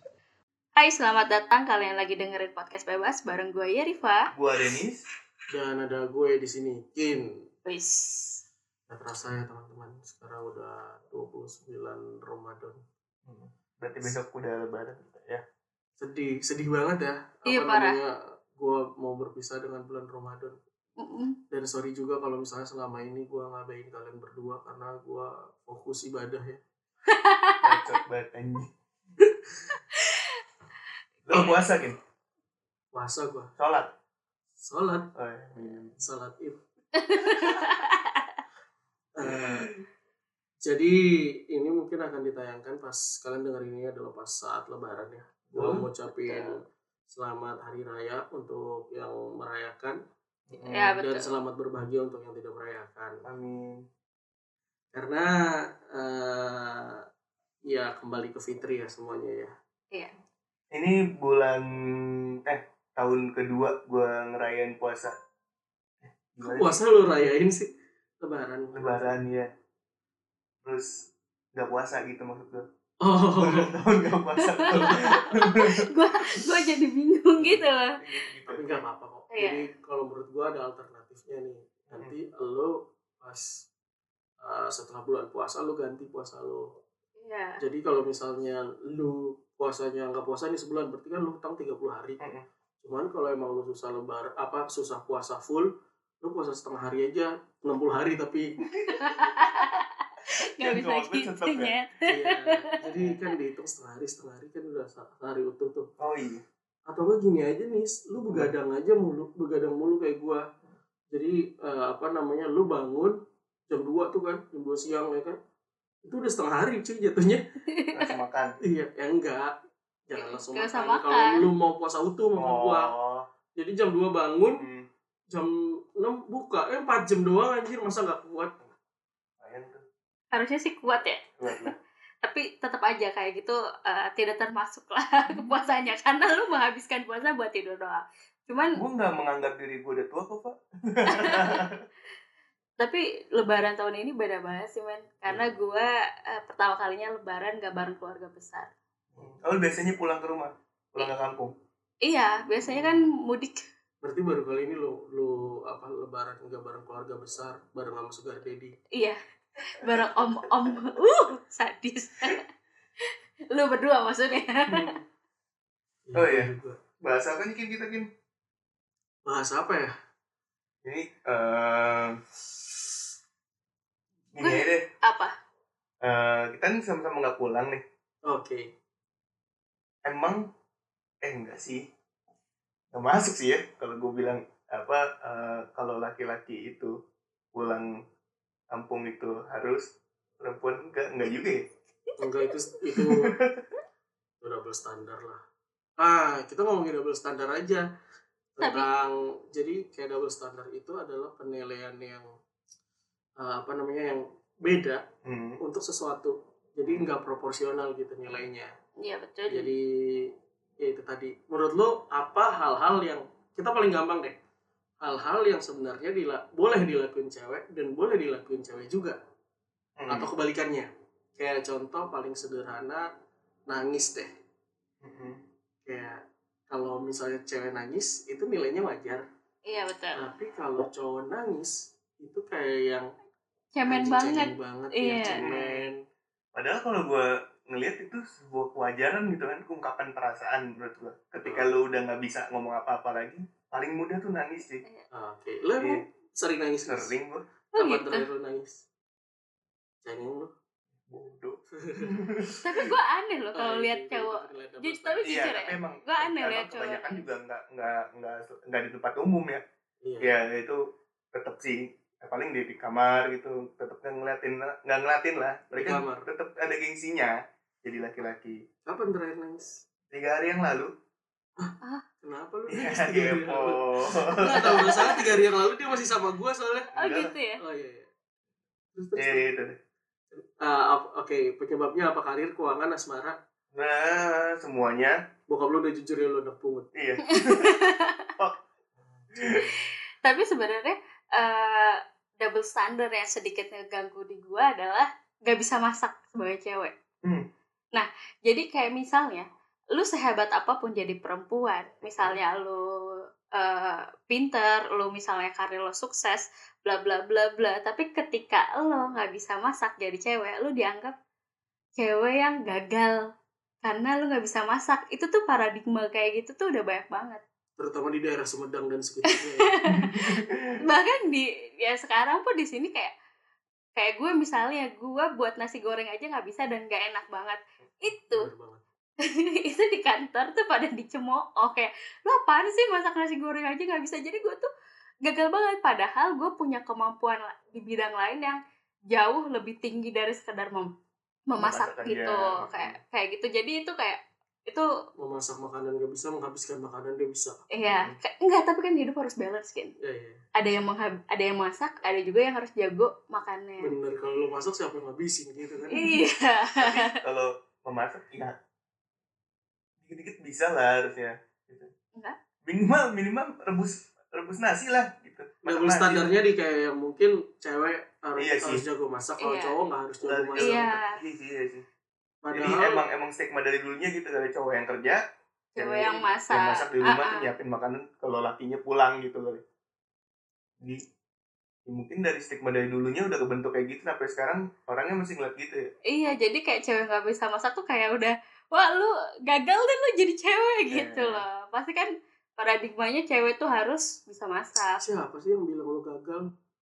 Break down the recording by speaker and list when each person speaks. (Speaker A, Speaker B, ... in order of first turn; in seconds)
Speaker A: 0.8-4.3, 7.7-8.4, 17.5-18.0, 21.0-21.4, 27.1-27.6, 29.9-30.2, 37.0-38.3, 46.3-46.5, 50.7-51.3, 74.4-78.0, 79.3-79.7, 87.2-87.6, 99.0-103.2, 117.7-118.1, 120.1-121.5, 130.3-138.8, 141.1-141.7, 142.8-148.7, 152.0-153.6, 159.7-162.4, 163.5-164.9, 174.4-175.3, 198.6-198.9, 209.0-209.7, 229.7-230.3, 233.8-235.4, 247.8-248.2, 252.6-257.3, 274.6-275.4, 276.9-277.6, 287.5-288.3, 290.2-296.9, 297.9-302.8, 303.6-311.1, 312.0-313.2, 313.8-317.4, 319.7-323.1, 324.0-328.5, 329.3-334.7, 335.2-338.6, 339.1-340.9, 341.5-344.9, 347.7-349.9, 350.6-353.9, 355.9-357.2, 369.4-369.8, 370.6-371.1, 375.8-377.5, 386.1-395.0
Speaker B: 4.3-5.0, 13.3-15.4, 27.6-28.7, 31.3-32.0, 33.6-33.9, 35.2-36.0, 39.2-39.8, 45.5-45.9, 50.5-51.0, 53.3-53.9, 60.7-65.1, 66.1-66.9, 68.8-69.5, 70.6-72.7, 73.4-75.9, 77.4-78.8, 98.7-99.1, 100.6-101.7, 106.0-106.4, 108.3-108.5, 117.9-118.5, 122.4-123.3, 124.6-124.9, 129.4-129.8, 131.4-131.7, 138.8-141.8, 149.2-151.5, 164.7-165.0, 166.1-166.5, 167.0-168.1, 170.8-172.2, 174.3-174.8, 176.0-177.8, 180.1-180.4, 181.2-181.8, 182.9-186.9, 187.5-187.9, 188.7-189.9, 190.4-191.6, 193.2-193.6, 205.2-205.6, 220.0-220.3, 225.0-225.4, 235.2-235.9, 236.6-244.8, 245.8-246.1, 246.9-247.4, 251.1-252.9, 255.2-259.6, 260.2-260.8, 261.3-268.6, 270.1-270.9, 272.7-275.4, 276.9-277.3, 279.2-279.8, 283.7-285.2, 286.9-287.8, 319.9-320.8, 341.6-343.0, 347.9-348.2, 356.8-358.6, 360.0-361.9, 362.6-366.4, 368.4-368.9, 370.2-371.9, 372.5-375.2, 375.8-379.6, 381.9-385.9, 390.9-391.4
Speaker C: 5.5-7.3, 8.9-12.8, 16.0-20.6, 21.5-26.6, 31.3-31.6, 32.9-33.5, 34.6-35.1, 36.0-36.6, 39.2-39.7, 40.7-41.0, 41.5-46.5, 47.1-50.0, 51.0-53.2, 54.9-55.3, 56.0-57.0, 57.7-59.5, 66.4-67.7, 68.2-69.2, 73.0-73.7, 78.5-83.7, 84.4-86.7, 87.6-92.2, 92.8-95.7, 96.2-98.5, 102.1-105.9, 106.9-110.4, 111.1-113.2, 113.7-115.4, 116.0-117.4, 118.6-119.5, 120.1-122.9, 123.5-124.6, 125.3-128.6, 152.7-153.0, 154.0-158.8, 166.1-166.8, 169.3-169.9, 178.2-178.7, 192.2-193.3, 194.4-195.4, 196.0-197.8, 198.6-202.3, 203.4-205.0, 205.6-208.7, 209.5-210.3, 210.8-214.4, 215.0-219.2, 220.1-223.1, 223.7-224.3, 225.9-229.2, 230.2-233.1, 233.9-236.0, 241.4-241.7, 245.1-247.1, 247.8-248.8, 250.0-250.5, 251.8-252.1, 253.6-255.3, 260.0-260.4, 265.7-266.3, 268.9-269.8, 271.6-276.9, 277.6-278.1, 278.9-279.5, 280.6-283.4, 285.5-286.9, 289.1-289.9, 317.8-319.8, 328.2-328.8, 345.2-347.6, 350.0-350.4, 353.8-356.2, 365.7-370.8, 372.4-373.0, 395.0-396.5